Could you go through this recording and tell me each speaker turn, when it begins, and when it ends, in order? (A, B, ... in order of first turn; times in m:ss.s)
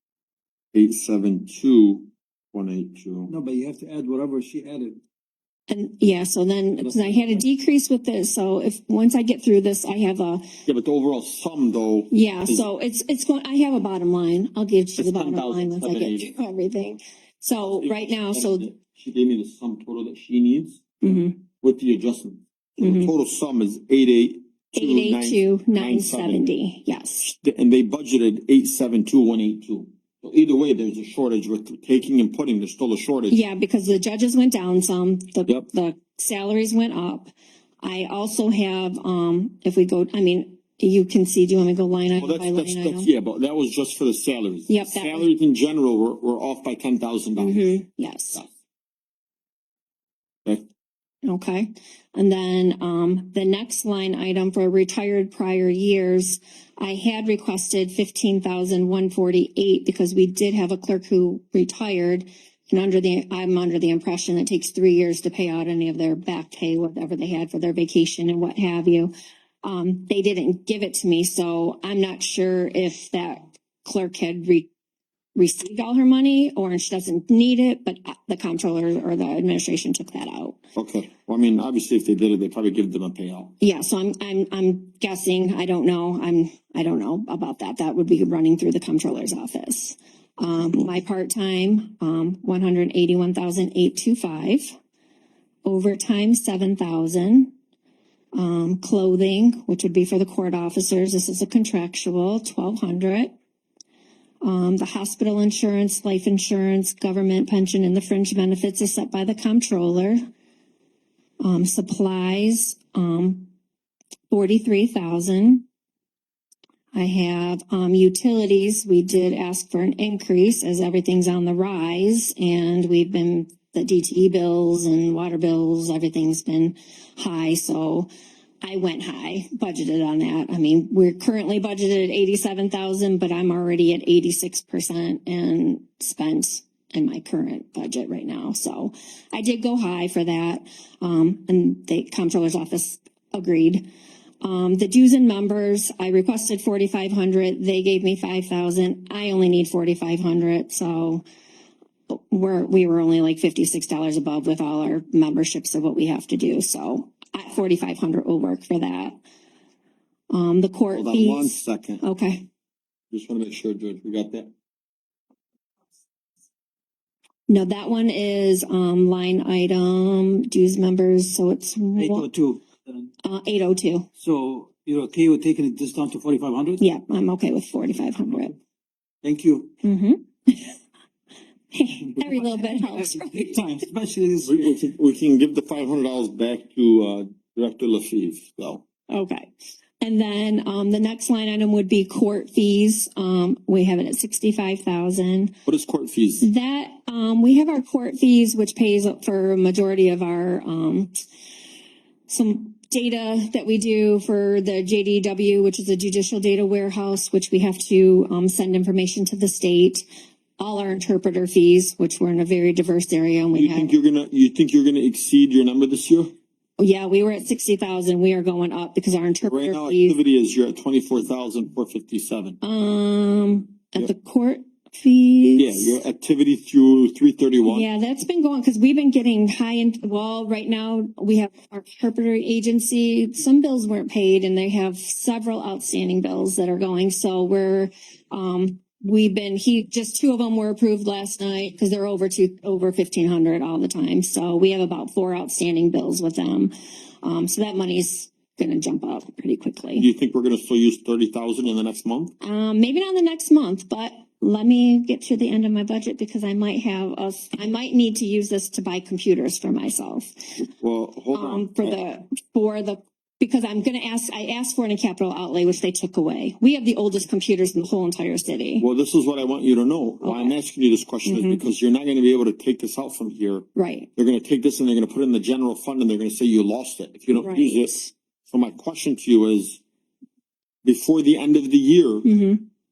0:00.7-0:03.3 A
0:03.3-0:05.0 B
0:05.7-0:10.4 C
0:06.8-0:07.4 A
0:10.6-0:12.6 A
0:12.1-0:18.7 C
0:15.0-0:16.3 A
0:17.6-0:26.5 A
0:21.0-0:21.4 C
0:22.8-0:23.1 C
0:24.7-0:27.3 C
0:27.4-0:33.4 A
0:33.3-0:37.3 C
0:37.8-0:43.1 C
0:42.2-0:47.7 A
0:44.7-0:45.3 C
0:47.4-0:48.4 C
0:51.2-1:09.1 C
1:09.6-1:14.7 C
1:15.4-1:20.6 C
1:20.8-1:23.5 A
1:23.6-1:34.8 C
1:35.6-1:37.5 C
1:38.3-1:43.3 C
1:44.4-1:50.2 C
1:51.4-1:53.5 C
1:54.3-1:55.6 C
1:56.9-2:08.1 C
2:08.6-2:23.8 C
2:24.4-2:31.2 C
2:32.1-2:39.2 C
2:40.3-2:42.4 C
2:40.9-2:42.0 A
2:43.1-2:44.5 A
2:47.5-2:52.3 C
2:52.0-2:53.1 B
2:53.2-2:54.1 C
2:54.2-2:56.8 B
2:56.8-2:58.5 C
2:59.2-2:59.7 B
2:59.8-3:00.8 C
3:01.7-3:03.6 C
3:02.2-3:04.7 B
3:04.4-3:08.8 A
3:09.1-3:09.5 C
3:10.0-3:15.6 C
3:15.6-3:16.5 A
3:16.4-3:21.1 C
3:22.3-3:30.0 C
3:30.6-3:33.9 C
3:33.5-3:36.3 A
3:36.8-3:40.2 C
3:39.4-3:42.6 A
3:42.6-3:46.0 C
3:45.6-3:47.9 A
3:47.6-4:10.1 C
4:10.0-4:12.3 A
4:12.4-4:20.3 C
4:20.6-4:22.0 A
4:21.3-4:28.8 C
4:28.8-4:39.8 A
4:30.2-4:30.6 C
4:31.2-4:31.6 C
4:33.8-4:34.1 C
4:37.3-4:38.1 C
4:40.8-4:42.3 A
4:42.2-4:42.6 C